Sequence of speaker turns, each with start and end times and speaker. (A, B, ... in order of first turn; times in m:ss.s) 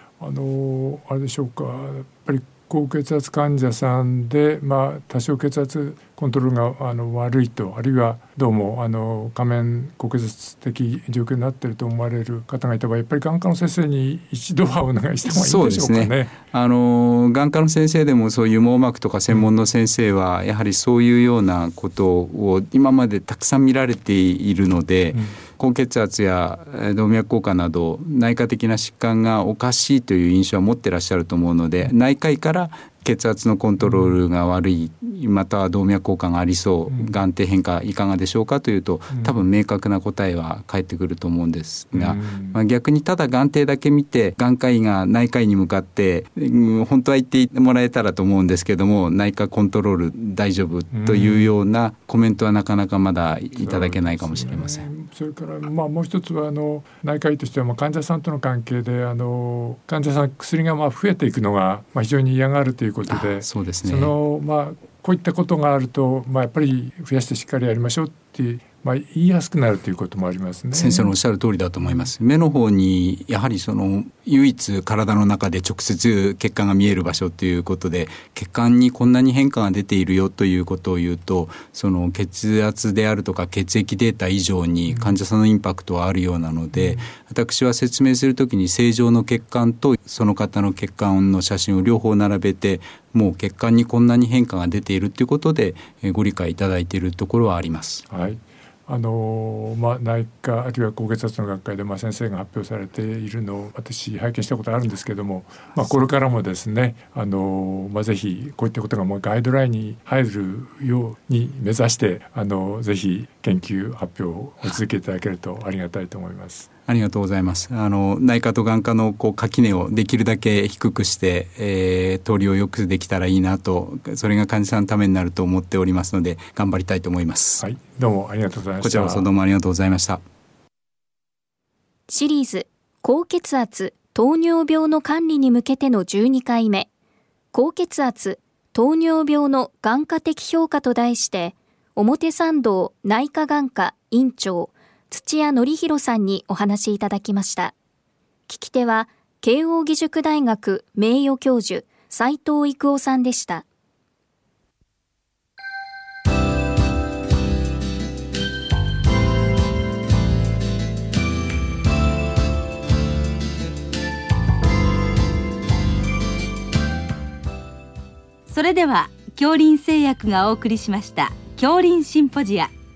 0:00.2-0:16.4 A
0:15.3-0:54.9 B
0:33.8-0:34.2 A
0:39.1-0:39.4 A
0:41.9-0:42.6 A
0:50.9-0:51.5 A
0:53.6-1:11.1 A
1:03.1-1:04.1 B
1:10.7-1:38.0 B
1:11.8-1:12.1 A
1:24.9-1:25.2 A
1:26.8-1:27.1 A
1:38.1-1:56.7 A
1:56.9-2:07.6 B
2:07.6-2:09.3 A
2:08.8-2:10.2 B
2:12.1-2:16.9 C
2:17.5-2:27.7 C
2:28.5-2:33.6 C
2:48.5-2:52.7 D